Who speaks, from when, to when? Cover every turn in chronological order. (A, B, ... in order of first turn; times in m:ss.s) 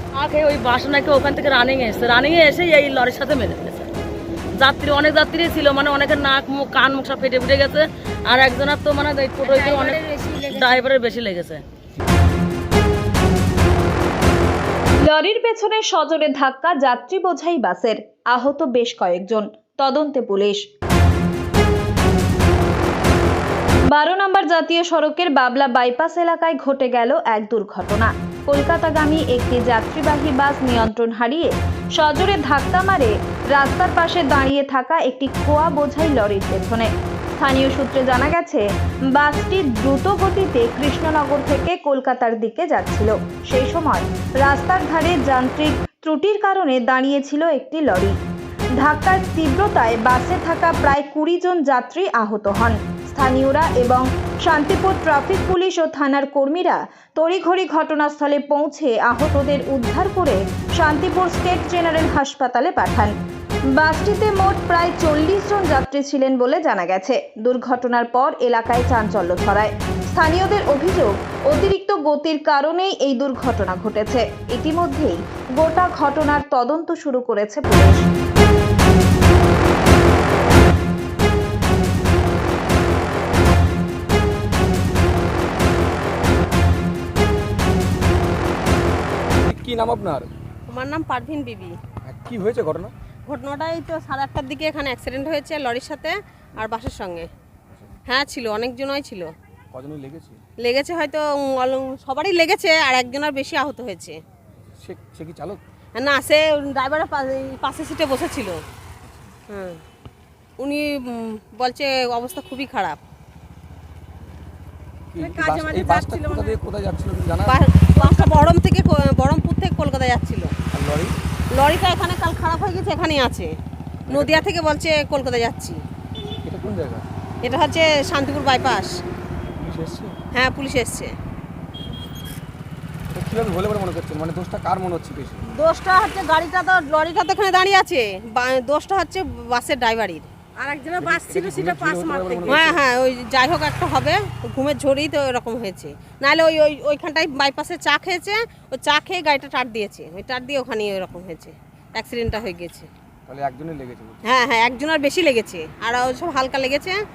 0:00.2-0:03.9 A
0:04.6-0:11.6 A
0:09.4-0:10.9 B
0:15.0-0:20.7 C
0:23.9-0:48.2 C
0:48.8-1:03.1 C
1:03.8-1:18.1 C
1:29.4-1:30.3 D
1:30.7-1:31.8 E
1:32.1-1:32.9 D
1:33.3-1:37.3 E
1:38.1-1:39.3 E
1:39.7-1:40.4 D
1:40.6-1:44.2 E
1:44.8-1:45.6 D
1:46.0-1:48.6 E
1:49.5-1:49.8 E
1:50.6-1:53.0 E
1:55.1-1:57.6 D
1:55.2-1:56.6 B
1:57.5-2:00.5 E
1:58.0-1:58.4 B
2:00.7-2:01.1 D
2:01.6-2:03.5 E
2:04.1-2:04.5 D
2:04.1-2:05.8 E
2:06.4-2:07.0 D
2:07.4-2:09.0 E
2:09.6-2:10.2 D
2:10.3-2:11.1 E
2:13.1-2:15.4 D
2:15.6-2:20.3 E
2:20.6-2:22.6 B
2:21.0-2:22.8 D
2:22.5-2:32.9 E
2:33.3-2:34.2 D
2:34.3-2:37.0 E